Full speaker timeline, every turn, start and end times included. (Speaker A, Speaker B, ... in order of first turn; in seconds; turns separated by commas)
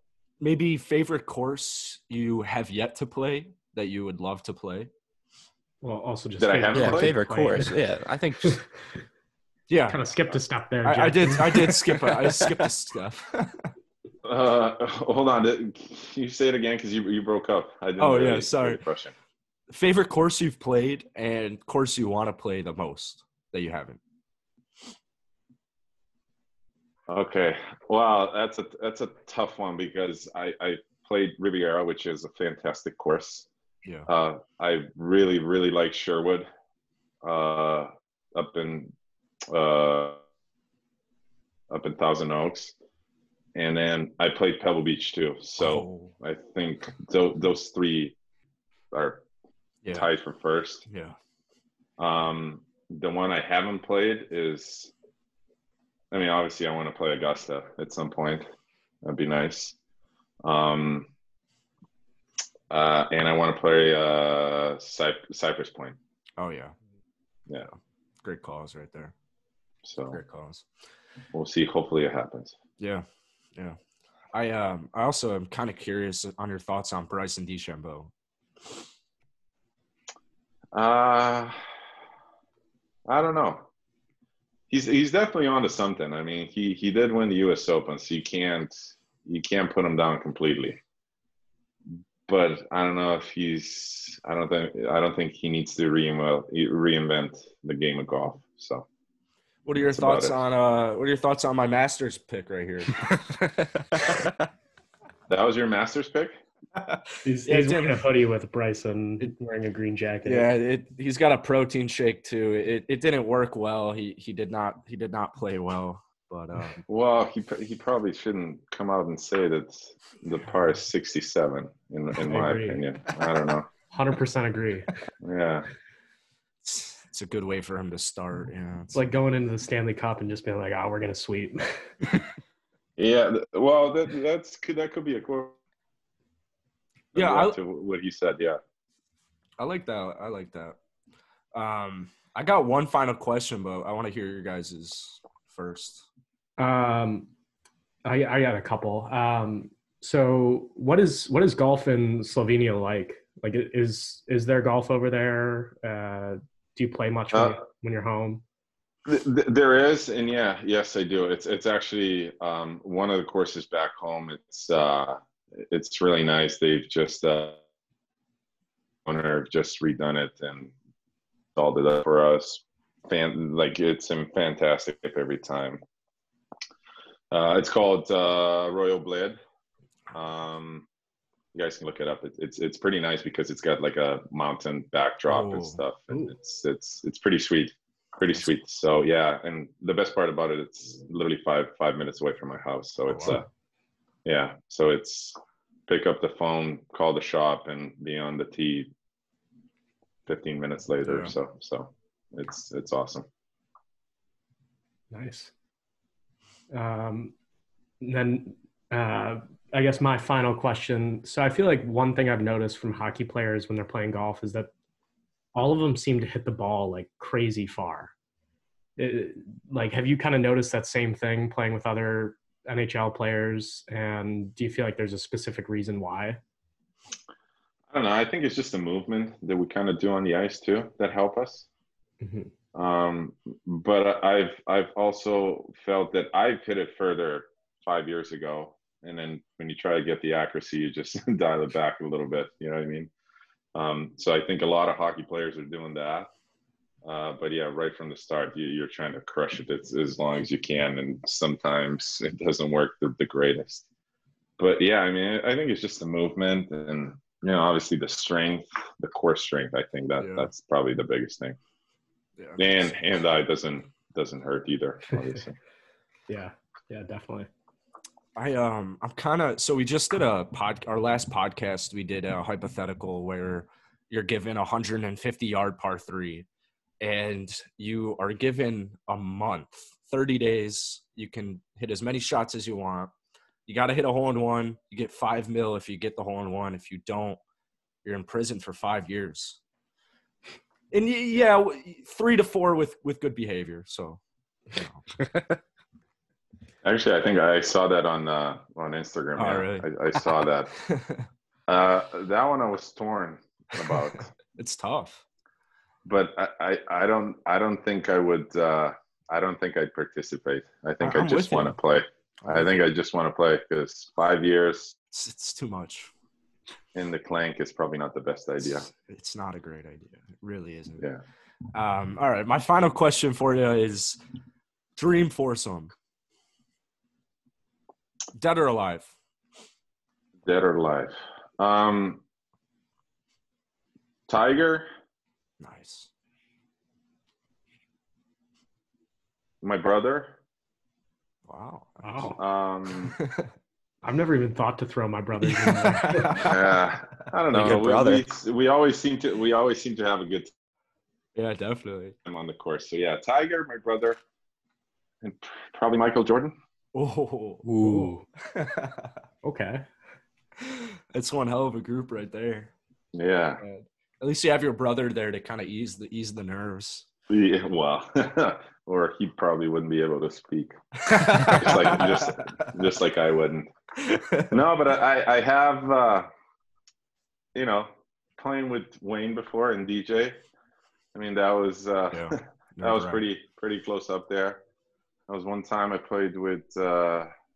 Speaker A: 0.4-4.9, Speaker B: 5.8-7.8, Speaker C: 6.4-7.1, Speaker D: 6.7-8.6, Speaker A: 9.7-10.0, Speaker B: 9.9-12.1, Speaker A: 10.8-13.7, Speaker C: 14.2-19.1, Speaker A: 18.0-18.8, Speaker A: 19.7-24.0, Speaker C: 27.1-33.5, Speaker C: 34.1-36.5, Speaker C: 37.2-38.9, Speaker C: 39.5-40.2, Speaker C: 41.7-42.7, Speaker C: 43.5-48.1, Speaker A: 45.6-46.1, Speaker C: 48.9-49.2, Speaker C: 49.9-50.8, Speaker A: 50.9-51.1, Speaker C: 52.0-54.9, Speaker C: 56.1-58.5, Speaker C: 59.0-59.8, Speaker C: 60.4-61.1, Speaker C: 62.7-66.0, Speaker A: 66.4-66.7, Speaker A: 68.2-69.1, Speaker C: 69.8-70.2, Speaker A: 70.1-70.6, Speaker C: 71.3-72.5, Speaker A: 72.8-73.0, Speaker A: 74.3-78.1, Speaker C: 80.7-81.5, Speaker C: 83.1-83.7, Speaker C: 84.7-90.8, Speaker C: 92.3-98.8, Speaker A: 99.6-103.2, Speaker C: 99.8-100.4, Speaker C: 105.3-106.3, Speaker A: 106.8-108.0, Speaker B: 107.2-110.5, Speaker A: 110.2-116.8, Speaker C: 116.9-123.7, Speaker B: 122.2-122.8, Speaker B: 123.9-124.9, Speaker C: 125.2-125.7, Speaker A: 126.6-129.0, Speaker B: 128.9-131.9, Speaker C: 133.0-135.6, Speaker C: 137.1-138.6, Speaker A: 137.1-137.6, Speaker A: 139.6-140.8, Speaker A: 141.5-146.1, Speaker B: 146.6-147.3, Speaker B: 148.0-158.4, Speaker C: 157.3-157.6, Speaker C: 159.1-167.6, Speaker C: 169.0-170.7, Speaker C: 171.5-175.8, Speaker C: 177.3-179.4, Speaker C: 180.1-180.8, Speaker C: 181.5-193.4, Speaker A: 185.3-185.8, Speaker A: 193.1-193.4, Speaker C: 194.2-195.4, Speaker C: 195.9-198.9, Speaker C: 200.3-203.2, Speaker A: 201.0-201.3, Speaker B: 205.1-205.5, Speaker B: 206.7-207.3, Speaker B: 208.0-214.7, Speaker B: 215.5-218.1, Speaker B: 219.0-226.4, Speaker C: 227.9-231.7, Speaker B: 232.2-232.5, Speaker C: 232.7-243.1, Speaker C: 243.7-246.3, Speaker C: 247.0-253.8, Speaker C: 254.6-261.6, Speaker A: 260.2-260.5, Speaker A: 262.4-262.9, Speaker C: 262.6-265.6, Speaker B: 266.3-267.5, Speaker A: 268.4-276.4, Speaker A: 277.0-283.1, Speaker A: 283.7-287.4, Speaker A: 288.0-289.6, Speaker A: 290.9-294.2, Speaker A: 294.7-295.0, Speaker D: 295.3-295.6, Speaker C: 296.8-300.7, Speaker A: 299.4-299.9, Speaker A: 300.9-301.3, Speaker C: 301.7-304.3, Speaker A: 303.8-305.2, Speaker C: 306.0-314.9, Speaker A: 311.0-311.8, Speaker A: 312.4-312.8, Speaker A: 315.1-316.1, Speaker C: 316.9-318.9, Speaker A: 318.6-321.0, Speaker A: 321.7-324.2, Speaker A: 324.9-325.9, Speaker A: 328.3-329.1, Speaker C: 330.4-332.2, Speaker C: 334.3-334.9, Speaker A: 335.6-336.1, Speaker C: 339.6-340.4, Speaker A: 341.5-342.4, Speaker B: 342.0-342.4, Speaker C: 342.4-343.1, Speaker A: 343.2-343.5, Speaker B: 344.0-346.4, Speaker A: 345.4-346.8, Speaker C: 346.4-350.5, Speaker D: 347.5-348.2, Speaker A: 351.4-352.1, Speaker C: 352.2-354.2, Speaker C: 355.2-356.5, Speaker A: 356.9-357.7, Speaker D: 357.6-358.1, Speaker B: 357.8-358.2, Speaker A: 358.4-359.1, Speaker B: 359.4-359.8, Speaker A: 360.6-362.7, Speaker C: 363.1-363.6, Speaker A: 363.6-367.1, Speaker C: 367.3-370.7, Speaker A: 371.0-372.4, Speaker C: 371.3-373.7, Speaker A: 374.0-374.5, Speaker C: 374.5-376.3, Speaker C: 377.5-380.4, Speaker C: 381.1-384.6, Speaker A: 382.1-383.2, Speaker C: 385.3-387.3